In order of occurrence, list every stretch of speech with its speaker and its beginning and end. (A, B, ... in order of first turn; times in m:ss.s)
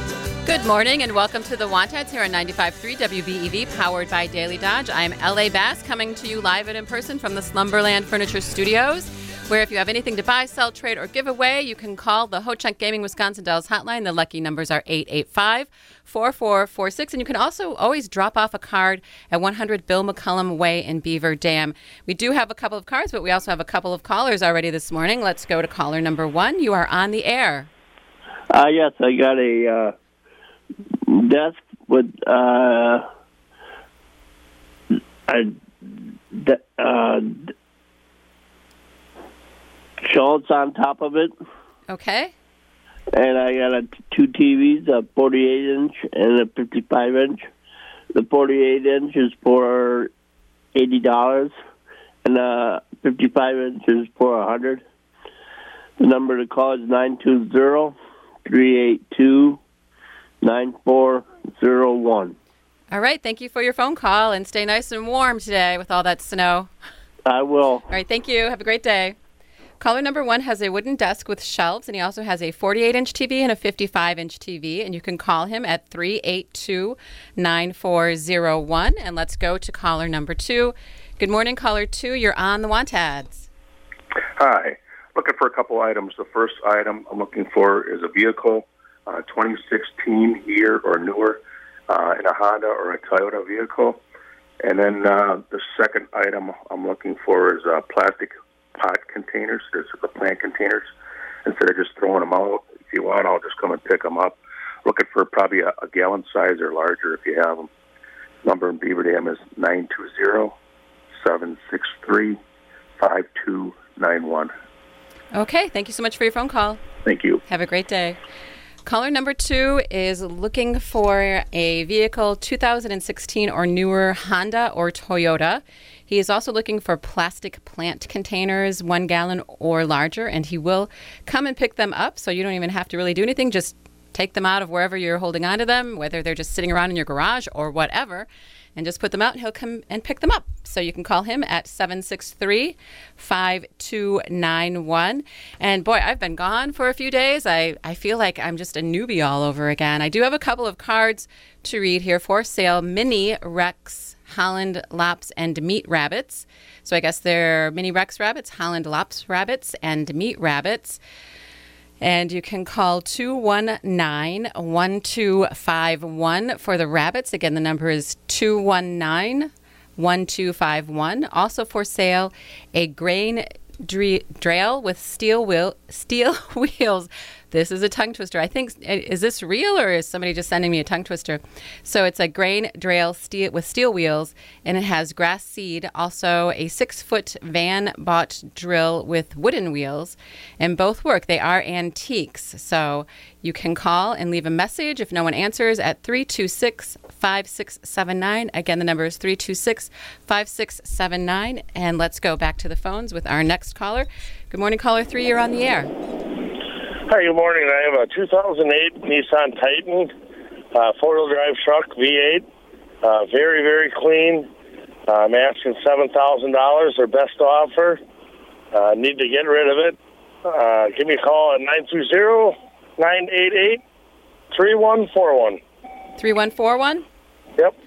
0:00.5-0:27.7 A
0:28.5-0:29.9 B
0:31.1-0:33.1 B
0:35.3-0:37.5 B
0:40.0-0:41.3 B
0:41.9-0:42.3 A
0:43.1-0:47.5 B
0:48.2-0:50.1 B
0:50.8-0:51.5 B
0:52.2-0:54.8 B
0:56.0-0:58.0 B
0:58.5-0:59.6 B
1:00.4-1:02.4 B
1:02.9-1:06.7 A
1:07.3-1:07.9 B
1:07.9-1:09.2 A
1:09.8-1:23.5 A
1:24.4-1:34.0 C
1:34.6-1:40.9 C
1:41.4-1:47.7 C
1:48.4-1:50.6 C
1:51.2-1:52.4 C
1:53.0-1:54.5 C
1:55.4-1:56.8 A
1:57.1-1:57.4 C
1:57.5-1:58.2 A
1:58.9-2:41.0 A
2:42.0-3:25.9 A
3:27.1-3:30.1 D
3:30.7-3:32.5 D
3:33.0-3:34.5 D
3:35.1-3:38.0 D
3:38.7-3:43.8 D
3:44.5-3:45.6 D
3:46.2-3:47.0 A